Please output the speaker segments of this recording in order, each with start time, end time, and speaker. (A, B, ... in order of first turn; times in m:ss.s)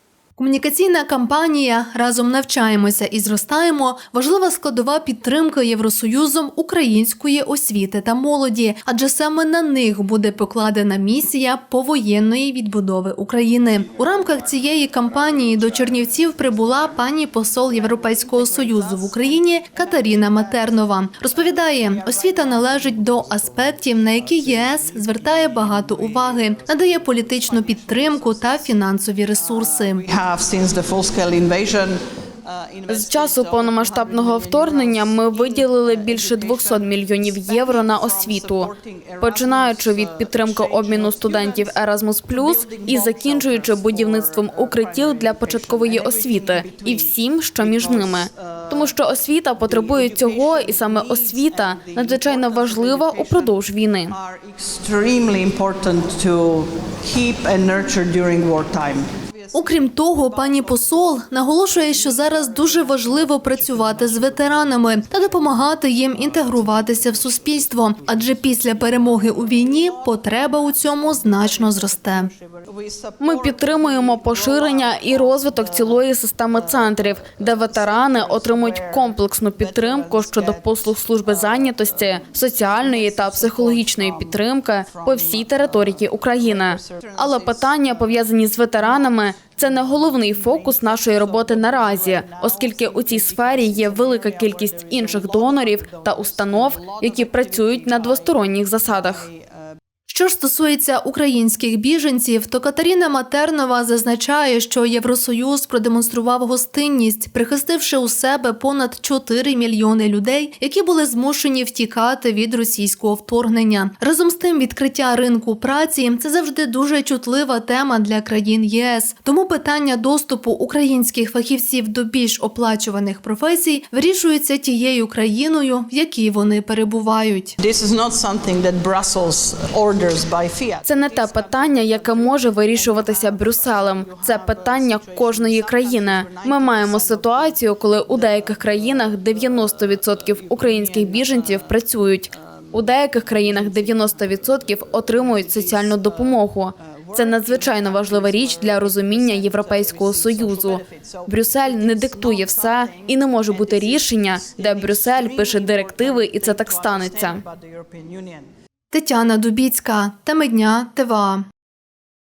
0:00.4-0:30.0 A
0:15.1-0:16.1 B
0:17.7-0:23.6 B
0:24.2-0:28.8 B
0:29.3-0:49.0 B
0:32.9-0:54.2 C
0:49.6-1:39.8 B
0:59.5-1:12.3 A
1:13.2-1:39.3 C
1:40.1-2:07.5 A
2:07.6-2:38.5 B
2:10.8-2:37.4 C
2:38.9-2:41.4 A